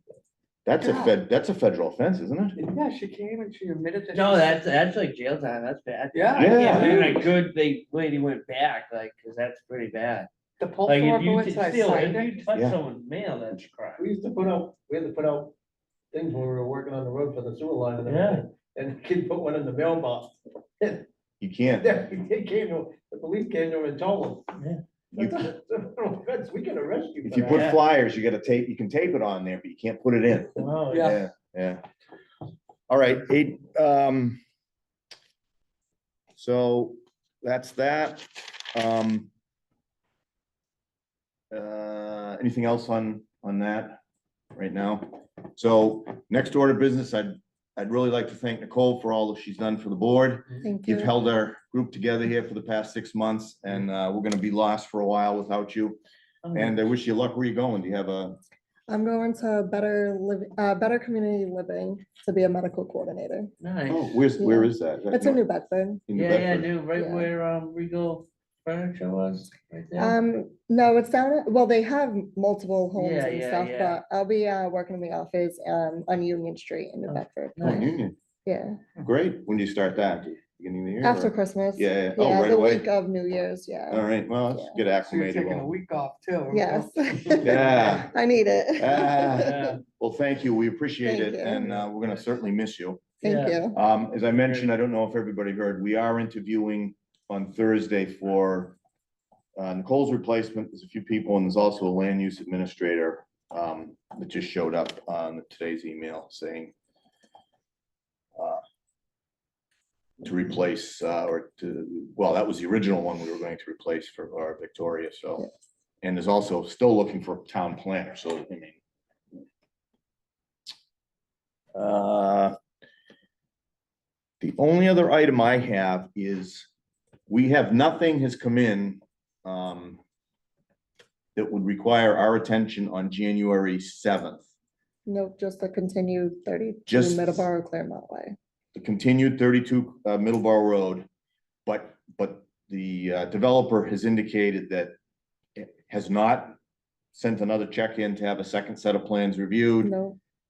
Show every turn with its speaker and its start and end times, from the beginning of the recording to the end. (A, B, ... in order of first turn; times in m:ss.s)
0:00.6-0:02.6 A
0:00.8-0:01.1 B
0:02.6-0:04.6 B
0:04.1-0:10.3 C
0:06.1-0:07.3 B
0:06.3-0:07.0 A
0:10.6-0:12.5 B
0:10.8-0:14.0 C
0:12.5-0:12.8 A
0:14.0-0:15.5 D
0:16.1-0:21.1 D
0:18.0-0:18.4 C
0:21.4-0:21.9 A
0:21.7-0:24.5 D
0:24.6-0:24.8 C
0:25.1-0:27.7 D
0:25.2-0:25.5 A
0:27.2-0:31.8 A
0:27.4-0:27.8 C
0:30.6-0:31.2 C
0:30.9-0:31.2 B
0:32.9-0:34.4 A
0:36.4-0:39.3 A
0:41.5-0:44.0 A
0:44.5-0:56.0 A
0:50.6-0:51.1 E
0:56.4-0:56.8 C
0:56.5-0:58.4 A
0:58.9-1:03.5 E
1:03.6-1:04.2 C
1:03.9-1:05.4 A
1:04.4-1:06.0 E
1:06.1-1:06.7 A
1:06.1-1:10.2 C
1:06.9-1:07.3 E
1:10.0-1:18.8 E
1:13.0-1:14.0 C
1:17.1-1:17.9 C
1:17.6-1:18.1 A
1:19.0-1:22.8 A
1:21.0-1:24.8 E
1:23.9-1:25.7 A
1:25.0-1:27.7 B
1:26.5-1:29.6 E
1:27.4-1:28.1 A
1:28.8-1:33.0 A
1:29.3-1:29.8 C
1:31.0-1:31.7 E
1:33.2-1:33.8 E
1:33.2-1:34.7 C
1:33.7-1:38.8 A
1:39.5-1:46.7 A
1:48.4-1:48.6 A
1:50.2-1:55.4 A
1:56.0-1:58.8 A
2:01.7-2:02.6 A
2:04.4-2:06.7 A
2:07.3-2:10.0 A
2:11.4-2:14.4 A
2:15.0-2:18.4 E
2:16.9-2:17.5 A
2:18.7-2:21.1 A
2:21.6-2:24.9 A
2:25.6-2:26.5 A
2:27.1-2:29.9 A
2:29.8-2:30.2 E